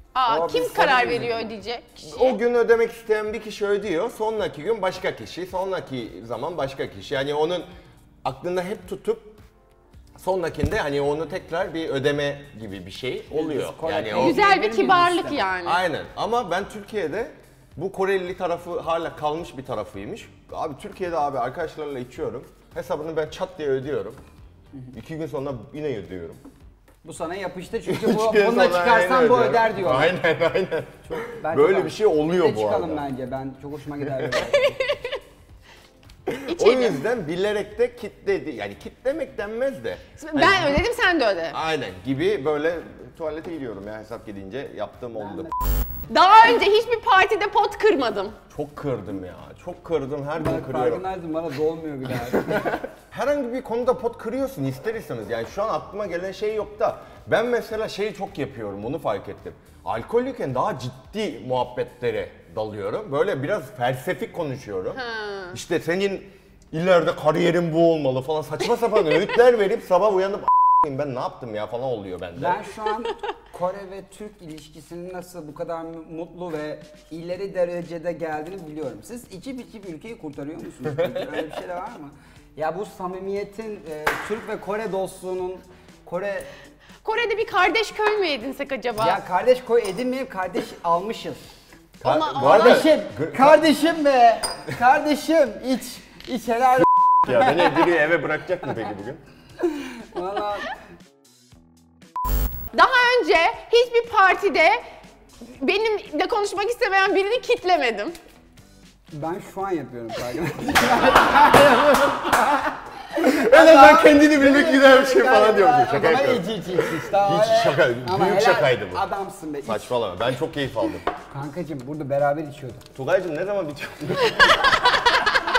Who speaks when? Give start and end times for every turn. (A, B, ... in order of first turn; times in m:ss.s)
0:00.1-0:02.4 A
0:00.3-0:01.5 B
0:02.0-0:07.7 C
0:08.2-0:09.4 C
0:10.2-0:14.4 C
0:13.3-0:15.5 B
0:14.1-0:15.8 A
0:15.6-0:24.2 C
0:24.9-0:26.4 C
0:27.0-0:30.1 B
0:27.8-0:33.0 C
0:31.0-0:34.8 B
0:34.0-0:34.5 C
0:34.5-0:35.2 A
0:36.3-0:40.8 C
0:36.5-0:37.0 A
0:40.2-0:41.6 A
0:41.5-0:45.5 C
0:46.1-0:48.4 A
0:48.5-0:51.0 C
0:50.4-0:52.7 B
0:52.3-1:05.0 C
1:04.9-1:05.6 A
1:05.5-1:12.6 C
1:12.4-1:26.5 B
1:27.0-1:29.2 A
1:29.0-1:31.4 B
1:32.0-1:33.7 C
1:32.0-1:32.9 A
1:32.4-1:37.9 B
1:37.2-1:39.2 C
1:39.8-1:40.7 B
1:42.7-1:44.8 A
1:45.5-1:48.1 A
1:49.1-1:59.9 B
1:53.2-1:59.0 C
1:59.6-2:01.0 C
2:01.3-2:02.8 B
2:02.9-2:04.7 C